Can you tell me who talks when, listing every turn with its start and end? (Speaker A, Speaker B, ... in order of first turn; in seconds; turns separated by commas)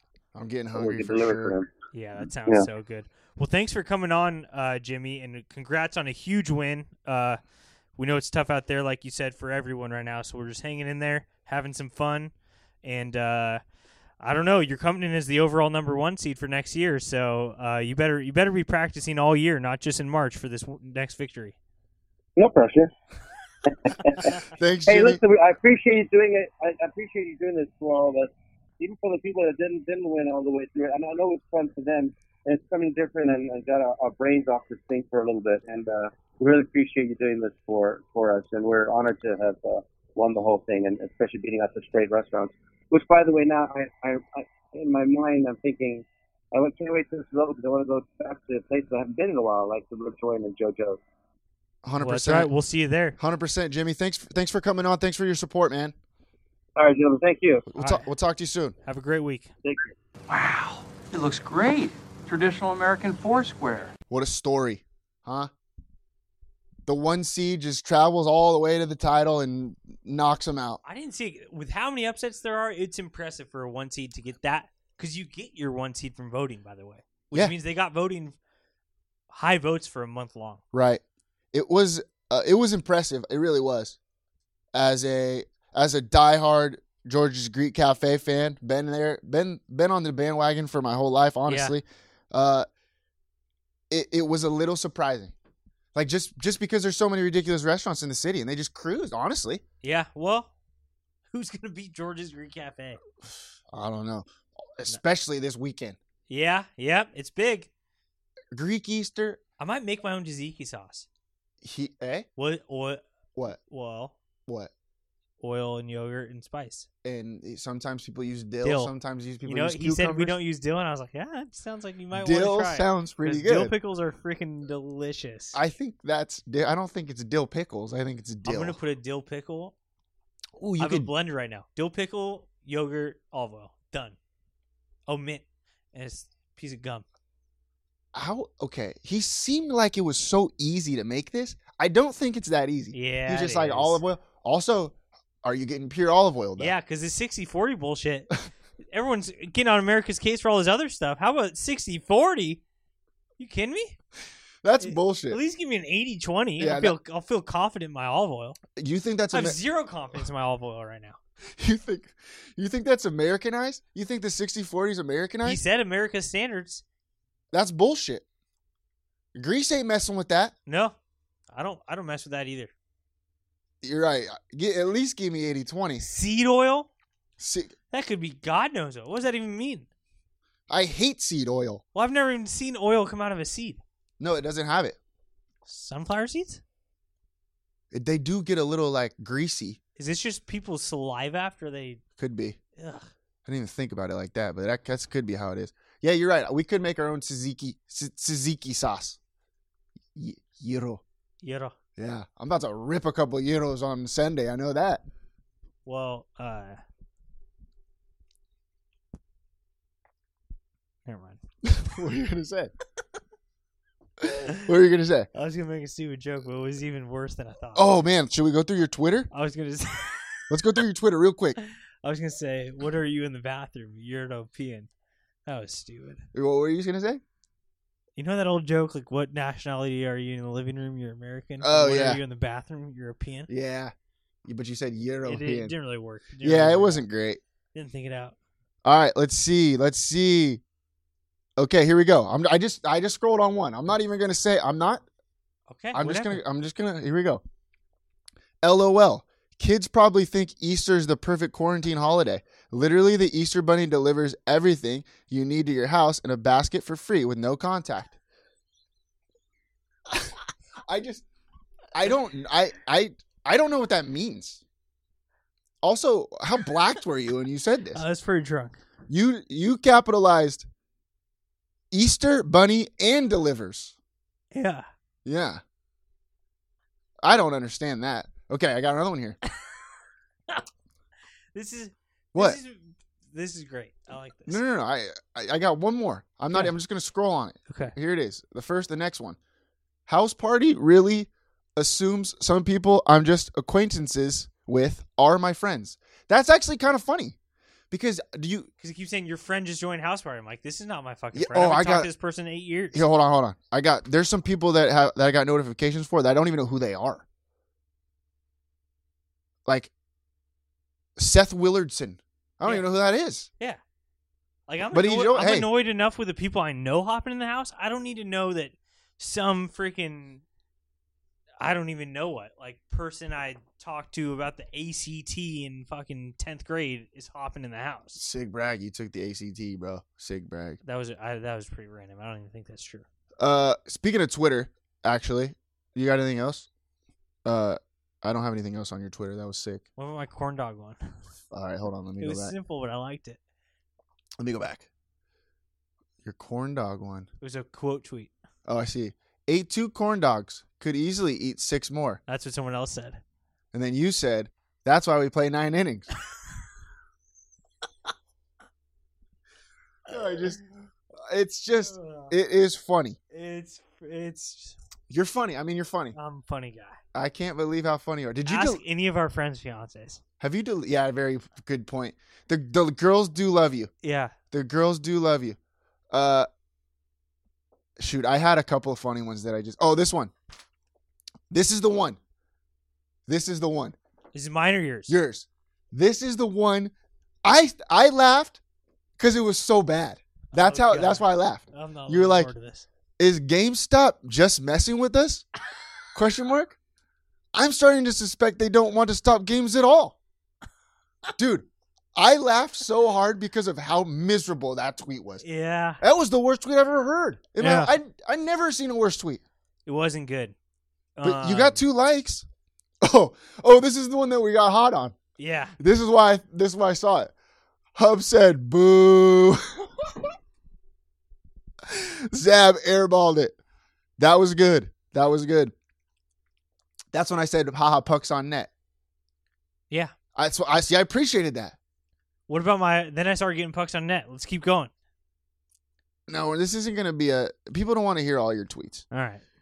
Speaker A: 0.3-1.6, Speaker B: 0.7-1.7, Speaker C: 1.9-7.4, Speaker C: 8.0-12.3, Speaker C: 12.8-13.6, Speaker C: 14.2-21.6, Speaker B: 22.4-22.9, Speaker B: 23.6-51.0, Speaker A: 24.5-25.2, Speaker A: 51.8-52.5, Speaker C: 52.0-53.2, Speaker A: 53.2-55.9, Speaker B: 56.8-57.6, Speaker A: 57.7-58.8, Speaker C: 57.8-58.1, Speaker C: 58.8-59.5, Speaker B: 59.6-59.9, Speaker D: 60.3-63.9, Speaker A: 64.1-65.5, Speaker A: 66.8-70.8, Speaker C: 70.8-78.3, Speaker C: 79.3-80.6, Speaker A: 80.7-81.0, Speaker A: 81.5-84.0, Speaker A: 84.7-92.7, Speaker C: 91.5-91.8, Speaker A: 93.9-95.3, Speaker A: 95.9-99.6, Speaker C: 99.8-100.5, Speaker C: 101.3-103.0, Speaker A: 103.7-106.0, Speaker C: 106.3-107.7, Speaker A: 108.5-109.4, Speaker C: 109.6-111.1, Speaker A: 111.6-112.3, Speaker C: 112.4-113.0, Speaker C: 113.7-114.1, Speaker C: 115.4-116.9, Speaker A: 117.0-120.4, Speaker C: 118.6-118.9, Speaker C: 119.4-125.6, Speaker A: 122.1-123.7, Speaker A: 125.5-128.8, Speaker C: 128.4-129.7, Speaker A: 130.6-131.1, Speaker C: 130.8-134.2, Speaker C: 135.1-137.0, Speaker A: 138.1-146.7, Speaker C: 142.9-144.0, Speaker C: 146.6-148.3, Speaker C: 148.9-152.6, Speaker C: 153.4-154.0, Speaker A: 154.6-155.4, Speaker C: 154.8-158.6, Speaker A: 156.6-156.9, Speaker A: 158.8-159.6, Speaker C: 159.3-161.2, Speaker A: 161.6-165.6, Speaker C: 165.4-166.8, Speaker A: 167.5-168.2, Speaker A: 169.3-170.5, Speaker C: 170.7-170.9, Speaker C: 171.5-172.7, Speaker A: 173.8-176.1, Speaker C: 176.0-176.9, Speaker A: 177.4-177.7, Speaker C: 177.9-179.9, Speaker A: 180.7-181.8, Speaker C: 181.9-183.8, Speaker A: 184.2-185.0, Speaker C: 185.7-186.6, Speaker A: 187.9-189.8, Speaker C: 190.0-192.0, Speaker A: 192.2-192.6, Speaker C: 192.8-193.1, Speaker A: 193.4-199.2, Speaker A: 200.1-201.0, Speaker C: 201.4-201.7, Speaker A: 202.0-205.0, Speaker C: 205.8-206.8, Speaker C: 211.1-211.4, Speaker A: 211.6-212.7, Speaker A: 214.2-215.3, Speaker C: 215.3-217.9, Speaker A: 217.7-219.3, Speaker C: 219.3-220.5, Speaker A: 220.5-221.6, Speaker C: 221.6-224.9, Speaker C: 225.4-226.2, Speaker A: 226.3-227.2, Speaker C: 228.2-233.5, Speaker A: 231.6-232.2, Speaker A: 233.5-233.9, Speaker A: 234.4-235.7, Speaker C: 235.2-237.0, Speaker A: 236.4-237.4, Speaker C: 237.7-238.3, Speaker A: 238.8-240.6, Speaker A: 241.6-245.0, Speaker C: 245.7-246.4, Speaker A: 245.9-247.4, Speaker A: 248.6-258.2, Speaker A: 260.9-261.2, Speaker A: 261.9-264.6, Speaker A: 265.8-268.0, Speaker C: 267.9-268.8, Speaker A: 269.1-270.6, Speaker A: 271.9-273.9, Speaker C: 274.5-274.9, Speaker A: 275.2-275.6, Speaker A: 277.2-279.4, Speaker C: 281.5-284.6, Speaker A: 282.3-282.6, Speaker A: 284.5-289.4, Speaker C: 287.7-287.9, Speaker A: 290.1-297.4, Speaker A: 297.9-298.7, Speaker C: 298.8-303.0, Speaker A: 301.3-302.1, Speaker A: 302.9-307.2, Speaker A: 309.6-309.9, Speaker A: 311.2-313.5, Speaker C: 314.7-320.4, Speaker A: 314.9-315.7, Speaker C: 321.6-328.2, Speaker A: 328.1-330.8, Speaker C: 330.8-333.0, Speaker A: 333.4-336.7, Speaker A: 337.4-339.8, Speaker C: 340.0-341.0, Speaker A: 341.5-342.5, Speaker C: 342.2-343.4, Speaker A: 344.4-344.9, Speaker A: 346.2-347.3, Speaker C: 347.4-348.3, Speaker A: 348.6-352.2, Speaker C: 352.3-353.2, Speaker A: 353.7-356.1, Speaker A: 360.1-360.6, Speaker C: 360.1-360.5, Speaker A: 361.2-363.2, Speaker C: 361.8-362.3, Speaker C: 363.3-364.8, Speaker A: 365.1-366.1, Speaker C: 366.1-367.0, Speaker A: 367.1-368.8, Speaker C: 368.4-370.2, Speaker A: 370.4-373.9, Speaker C: 374.0-374.3, Speaker A: 374.5-375.6, Speaker A: 376.1-376.5, Speaker A: 378.0-380.3, Speaker A: 381.5-382.2, Speaker A: 383.3-383.9, Speaker C: 384.3-385.1, Speaker A: 385.1-386.9, Speaker A: 387.4-388.6, Speaker A: 389.2-392.5, Speaker C: 390.5-392.9, Speaker A: 393.2-395.5, Speaker A: 396.1-396.8, Speaker A: 397.5-400.1, Speaker A: 401.4-405.4, Speaker C: 405.4-406.0, Speaker A: 406.0-409.4, Speaker C: 407.6-407.9, Speaker C: 409.9-410.5, Speaker C: 411.2-411.8, Speaker A: 411.2-412.4, Speaker A: 413.0-415.1, Speaker C: 415.4-415.7, Speaker A: 415.8-417.3, Speaker A: 417.9-420.3, Speaker A: 421.9-423.6, Speaker A: 424.2-425.7, Speaker A: 427.1-428.7, Speaker A: 430.3-431.8, Speaker C: 432.5-434.9, Speaker A: 436.3-439.0, Speaker C: 439.1-439.4